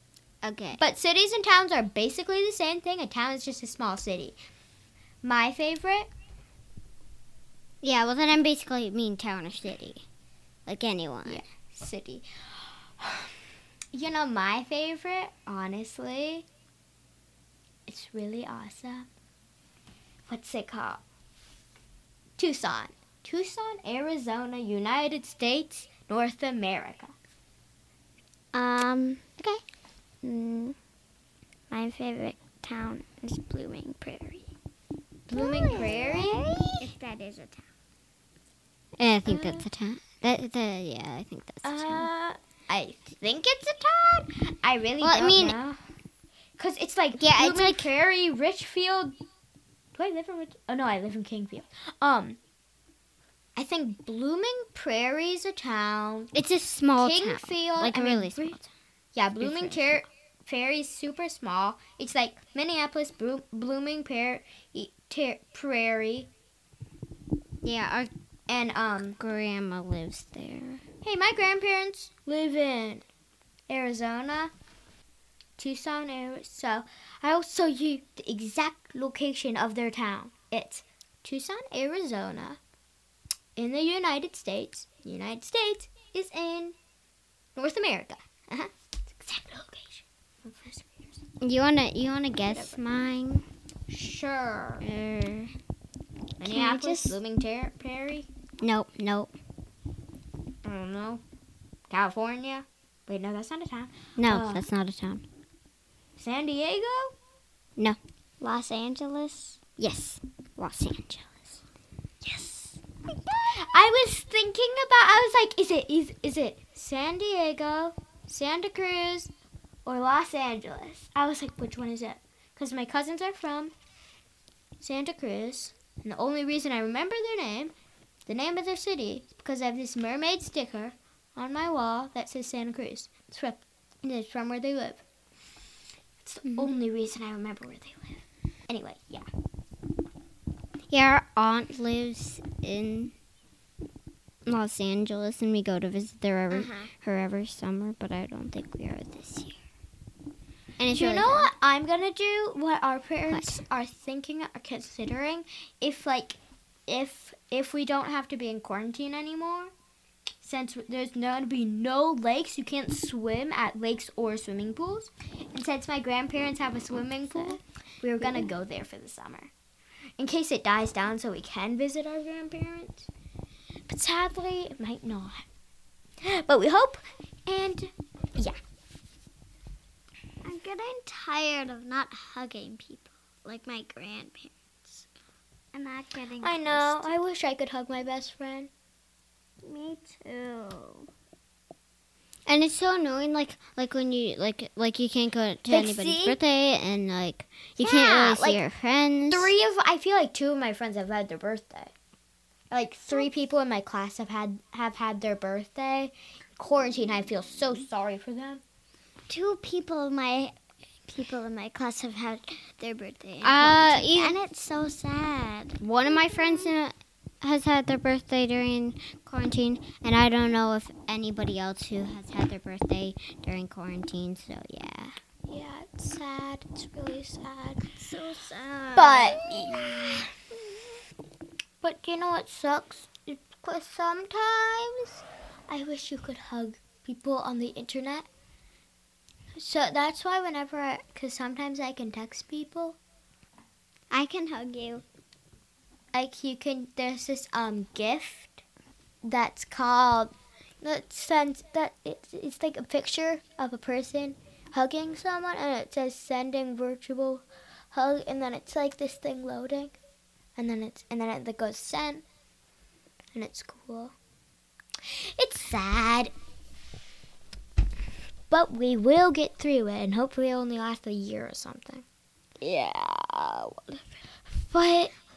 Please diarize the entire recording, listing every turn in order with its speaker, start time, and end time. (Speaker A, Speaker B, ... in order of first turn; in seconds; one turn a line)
Speaker A: 0.4-0.8
Speaker B: 0.8-4.4
Speaker B: 5.2-6.1
Speaker A: 7.8-10.0
Speaker A: 10.7-11.4
Speaker B: 11.2-13.3
Speaker B: 13.9-16.4
Speaker B: 17.9-19.1
Speaker B: 20.3-21.0
Speaker B: 22.4-27.1
Speaker C: 28.5-29.2
Speaker C: 30.2-30.8
Speaker C: 31.7-34.5
Speaker B: 35.3-36.4
Speaker A: 35.3-36.2
Speaker C: 35.5-37.7
Speaker A: 39.0-42.1
Speaker B: 39.2-39.6
Speaker B: 41.6-45.8
Speaker A: 45.0-45.5
Speaker B: 46.6-49.2
Speaker A: 47.1-47.9
Speaker B: 49.9-52.4
Speaker B: 53.5-56.3
Speaker A: 56.3-58.7
Speaker B: 57.0-58.6
Speaker B: 59.1-66.3
Speaker A: 59.4-60.0
Speaker A: 67.6-68.1
Speaker B: 68.5-69.2
Speaker A: 69.2-70.8
Speaker B: 71.0-73.0
Speaker B: 73.7-74.5
Speaker B: 75.6-82.6
Speaker B: 83.5-86.8
Speaker B: 87.5-91.2
Speaker A: 91.4-93.4
Speaker B: 92.5-92.8
Speaker B: 93.9-94.8
Speaker A: 94.8-95.5
Speaker B: 96.4-98.3
Speaker C: 96.4-97.2
Speaker A: 98.6-99.3
Speaker B: 100.6-101.2
Speaker B: 101.9-104.7
Speaker A: 104.2-105.2
Speaker B: 106.2-107.1
Speaker C: 108.4-109.6
Speaker A: 109.8-111.6
Speaker B: 112.2-112.8
Speaker B: 113.5-119.3
Speaker B: 119.8-123.7
Speaker B: 124.8-127.7
Speaker B: 128.2-135.0
Speaker B: 136.2-139.2
Speaker A: 140.9-143.1
Speaker A: 144.4-149.6
Speaker A: 150.8-151.5
Speaker B: 150.9-159.7
Speaker A: 153.3-153.6
Speaker B: 160.4-169.5
Speaker B: 170.2-173.1
Speaker B: 173.9-175.4
Speaker B: 176.2-178.6
Speaker C: 180.4-185.1
Speaker C: 185.7-187.1
Speaker B: 186.4-188.7
Speaker C: 189.6-191.1
Speaker A: 192.5-199.5
Speaker B: 195.7-196.4
Speaker B: 197.8-198.6
Speaker B: 199.3-201.9
Speaker B: 202.7-208.6
Speaker C: 209.3-210.5
Speaker C: 211.1-216.4
Speaker A: 213.4-214.3
Speaker A: 215.8-225.1
Speaker B: 225.5-227.8
Speaker C: 227.8-230.3
Speaker B: 228.9-230.3
Speaker B: 231.8-238.3
Speaker B: 239.5-243.0
Speaker C: 244.1-245.0
Speaker B: 246.1-248.6
Speaker B: 249.2-259.9
Speaker B: 260.6-262.2
Speaker B: 263.3-264.1
Speaker B: 265.0-266.3
Speaker B: 268.5-272.0
Speaker C: 272.6-273.8
Speaker B: 274.6-275.1